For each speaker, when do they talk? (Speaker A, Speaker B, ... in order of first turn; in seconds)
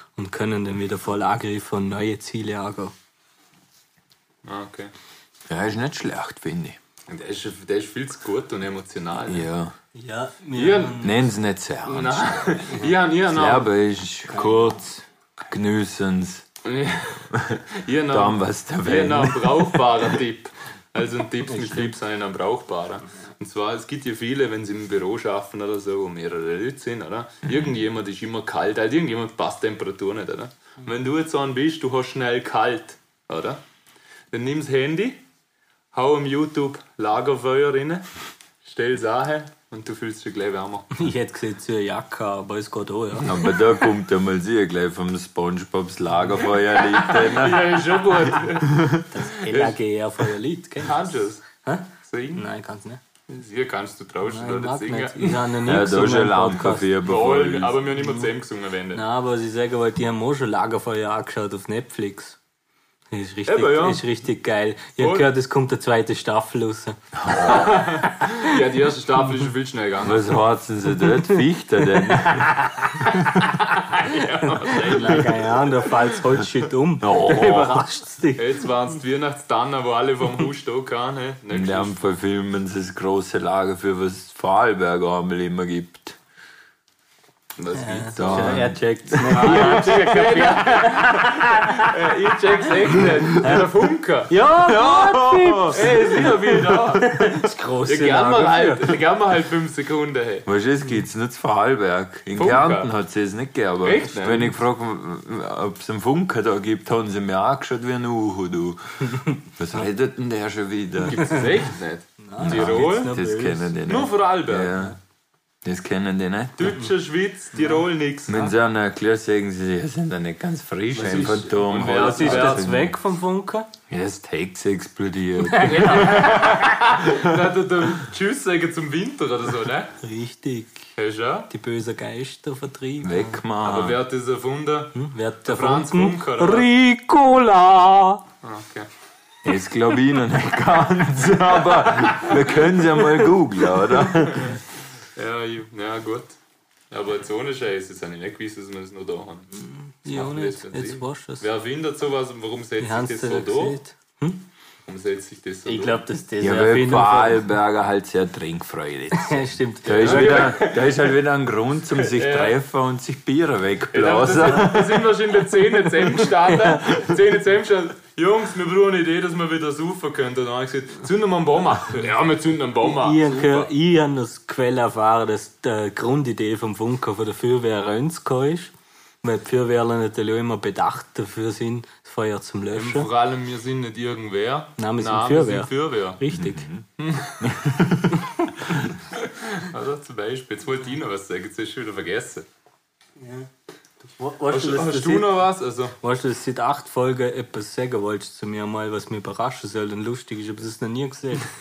Speaker A: 0.1-2.9, 9.9-11.2, 14.3-14.8, 21.4-21.9, 41.0-43.4, 49.1-53.0, 54.3-56.9, 58.0-58.3, 58.9-62.4, 63.1-68.5, 72.3-73.0, 74.6-78.5, 87.7-91.9, 93.0-93.7, 94.3-98.9, 112.2-113.8, 120.9-123.7, 125.4-126.7, 130.0-130.8, 131.5-133.4, 134.9-138.2, 149.5-151.4, 152.8-154.4, 155.7-157.4, 159.1-160.6, 166.4-166.8, 172.8-183.1, 184.8-186.7, 188.2-188.5, 193.2-193.5, 194.0-195.3, 196.0-201.5
Speaker B: 4.4-4.9, 7.1-9.5, 10.6-11.1, 11.8-13.7, 16.6-33.6, 34.3-35.2, 35.9-38.0, 38.6-41.0, 46.7-49.8, 50.8-51.4, 52.0-52.4, 53.3-55.4, 57.0-59.0, 63.5-64.0, 65.0-65.3, 67.3-70.4, 73.7-75.6, 78.3-82.0, 87.6-88.7, 89.3-94.3, 95.7-97.2, 97.9-100.5, 102.3-102.9, 103.8-104.5, 111.0-113.1, 113.8-114.8, 116.6-118.5, 121.0-122.7, 125.6-129.9, 130.9-131.5, 133.6-136.7, 138.4-138.9, 142.0-142.4, 144.3-144.6, 145.2-146.3, 146.9-149.5, 150.1-153.8, 154.8-156.0, 159.9-161.0, 161.9-162.6, 163.9-173.7, 182.7-186.2, 187.0-187.6, 189.1-192.4, 194.5-195.9
Speaker C: 5.5-6.8, 9.2-9.7, 11.0-12.8, 13.3-16.5, 17.3-19.8, 43.2-48.0, 48.5-49.0, 55.6-57.8, 67.2-67.7, 70.0-72.6, 77.0-77.8, 81.5-86.2, 88.1-89.8, 94.6-96.0, 100.5-111.4, 112.4-114.9, 115.6-116.8, 118.3-122.9, 123.9-126.3, 127.0-127.3, 133.0-134.0, 139.4-144.6, 156.4-165.3, 186.3-186.9, 187.4-188.9